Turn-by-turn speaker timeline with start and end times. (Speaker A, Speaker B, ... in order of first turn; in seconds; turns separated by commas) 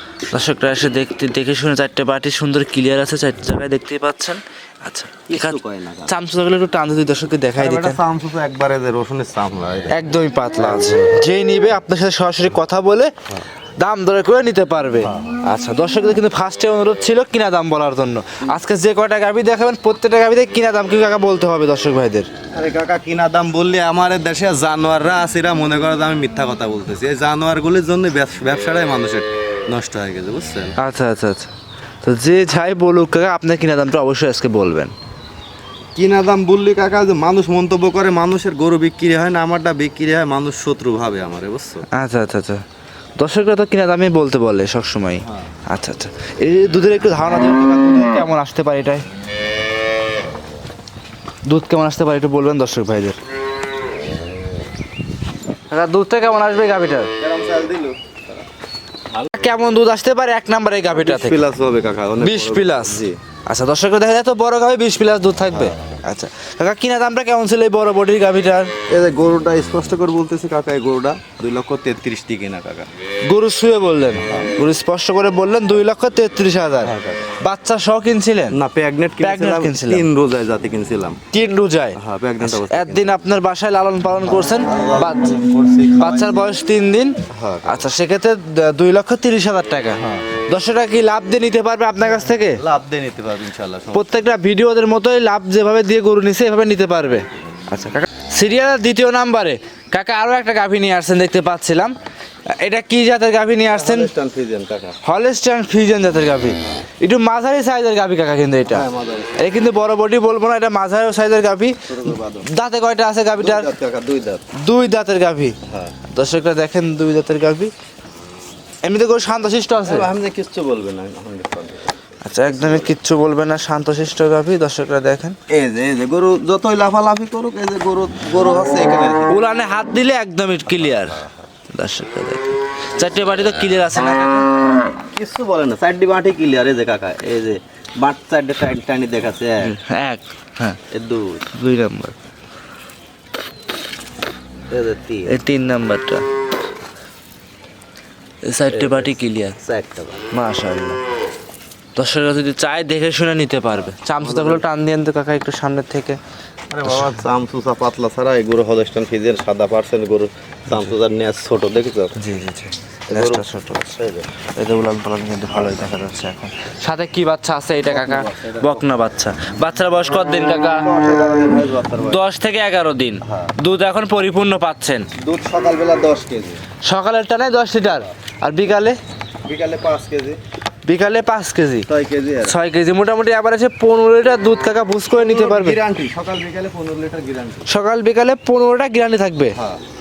Speaker A: 0.3-8.0, Speaker B: 5.3-6.2, Speaker B: 7.6-11.1, Speaker A: 9.9-13.1, Speaker A: 13.8-22.3, Speaker B: 15.0-15.3, Speaker B: 22.5-30.7, Speaker A: 30.8-31.5, Speaker A: 32.0-34.9, Speaker B: 36.0-41.9, Speaker A: 41.9-42.6, Speaker A: 43.2-49.0, Speaker B: 45.2-45.5, Speaker A: 51.5-53.2, Speaker A: 55.7-57.1, Speaker B: 57.2-58.4, Speaker A: 59.3-61.4, Speaker B: 60.9-63.2, Speaker A: 62.2-68.7, Speaker B: 65.5-65.8, Speaker B: 68.9-72.9, Speaker A: 73.3-78.6, Speaker B: 76.8-77.3, Speaker B: 78.5-81.2, Speaker A: 79.2-80.1, Speaker A: 81.3-85.3, Speaker B: 81.9-83.2, Speaker B: 84.2-86.5, Speaker A: 86.0-92.6, Speaker B: 87.3-87.9, Speaker B: 90.0-90.4, Speaker B: 92.4-94.2, Speaker A: 93.9-101.9, Speaker A: 102.5-104.1, Speaker B: 103.7-105.0, Speaker A: 105.0-111.8, Speaker B: 108.7-109.5, Speaker B: 111.8-112.5, Speaker A: 112.4-113.7, Speaker B: 113.4-114.4, Speaker A: 114.5-115.6, Speaker B: 115.7-116.0, Speaker A: 116.1-117.7, Speaker A: 118.8-120.1, Speaker B: 119.8-122.9, Speaker A: 122.2-125.4, Speaker B: 125.5-129.4, Speaker A: 129.3-134.5, Speaker B: 130.7-131.4, Speaker B: 135.0-139.7, Speaker A: 139.6-140.8, Speaker B: 140.9-141.5, Speaker A: 141.5-142.2, Speaker B: 144.7-145.4, Speaker A: 145.3-146.3, Speaker A: 148.4-149.6, Speaker B: 148.7-150.2, Speaker A: 150.3-151.0, Speaker A: 151.9-156.2, Speaker B: 154.2-154.6, Speaker B: 156.7-162.1, Speaker A: 156.8-157.2, Speaker A: 162.2-170.9, Speaker B: 163.1-164.3, Speaker B: 167.8-168.9, Speaker B: 170.8-172.2, Speaker A: 172.1-175.1, Speaker B: 173.2-173.5, Speaker B: 175.2-176.6, Speaker A: 176.8-179.0, Speaker B: 179.4-180.4, Speaker A: 180.8-181.9, Speaker B: 181.9-182.6, Speaker A: 182.4-185.8, Speaker B: 185.1-187.7, Speaker A: 187.7-189.6, Speaker B: 189.5-189.8